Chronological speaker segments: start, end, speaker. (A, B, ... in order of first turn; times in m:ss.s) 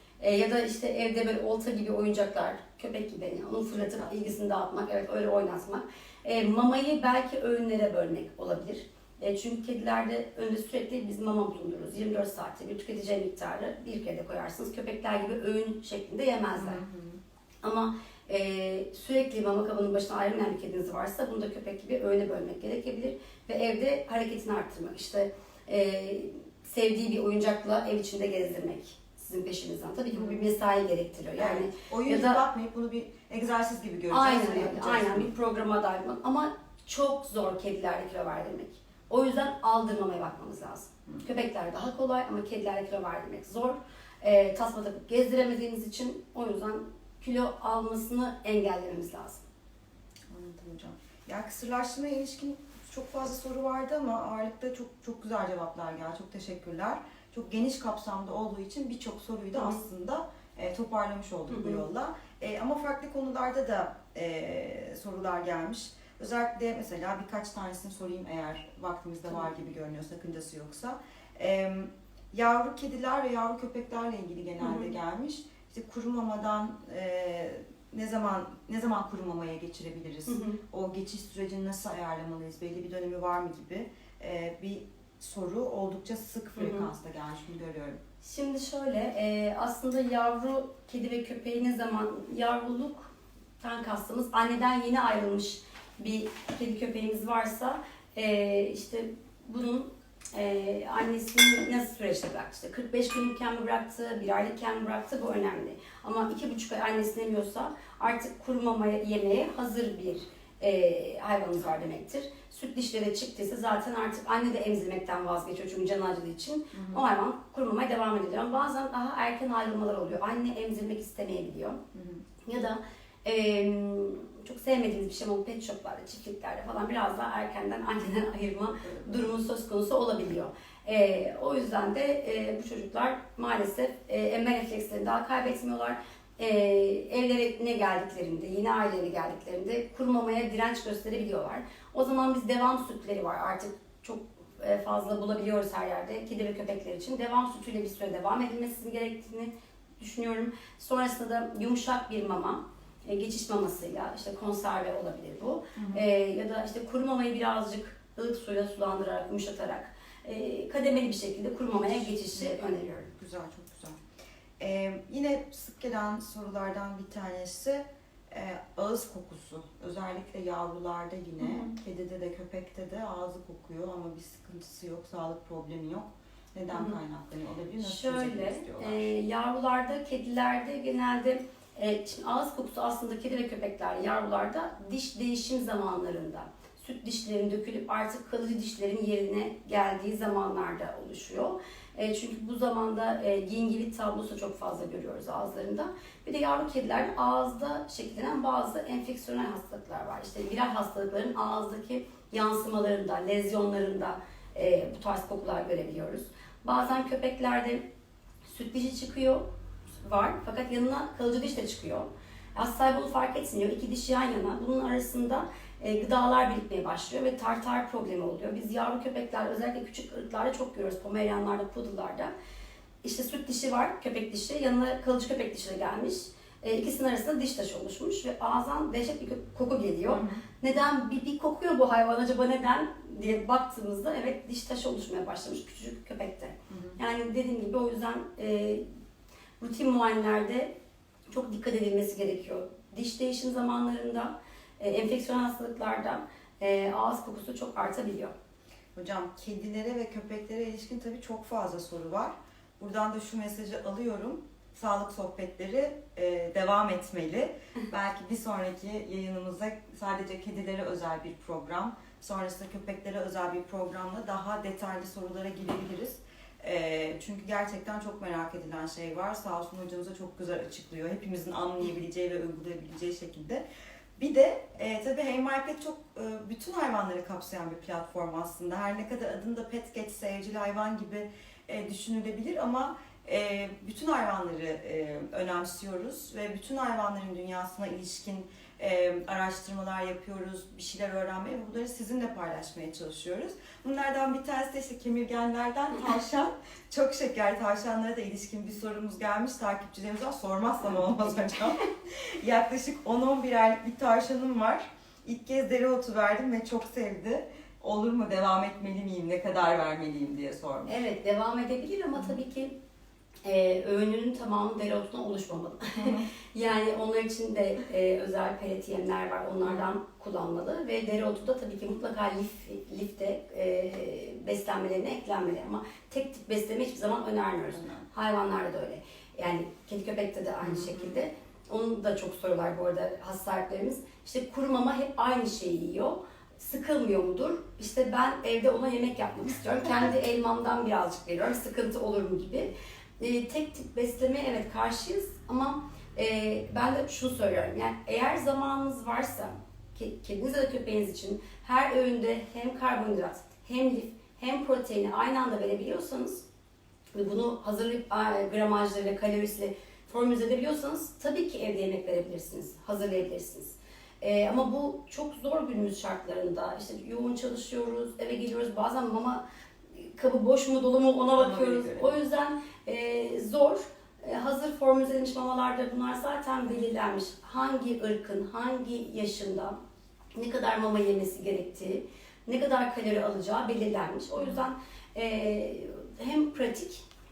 0:00.2-0:16.8 A
0:16.6-0:17.2 B
0:17.6-0:32.4 A
0:31.4-0:35.3 B
0:34.1-0:49.4 A
0:50.3-1:28.0 B
1:01.5-1:01.8 A
1:14.6-1:14.9 A
1:20.3-1:20.6 A
1:26.6-1:26.9 A
1:28.2-2:01.8 A
1:56.7-1:57.0 B
2:01.9-2:02.2 B
2:02.5-2:43.1 A
2:08.9-2:09.2 B
2:35.8-2:36.0 B
2:41.7-2:44.0 B
2:44.6-2:59.1 B
2:51.4-2:51.7 A
2:57.8-3:27.8 A
3:28.4-3:29.4 A
3:30.0-3:42.3 A
3:43.0-3:58.8 A
3:50.1-3:50.4 B
3:56.7-3:57.0 B
3:59.6-4:00.7 A
4:01.3-4:08.3 A
4:09.0-4:33.6 B
4:34.2-5:11.0 B
5:10.9-5:12.8 A
5:13.4-5:56.4 A
5:16.0-5:16.3 B
5:19.6-5:19.9 B
5:27.8-5:28.0 B
5:30.6-5:31.1 B
5:57.1-6:09.4 A
6:10.0-6:19.8 A
6:11.4-6:12.1 B
6:20.4-6:27.0 A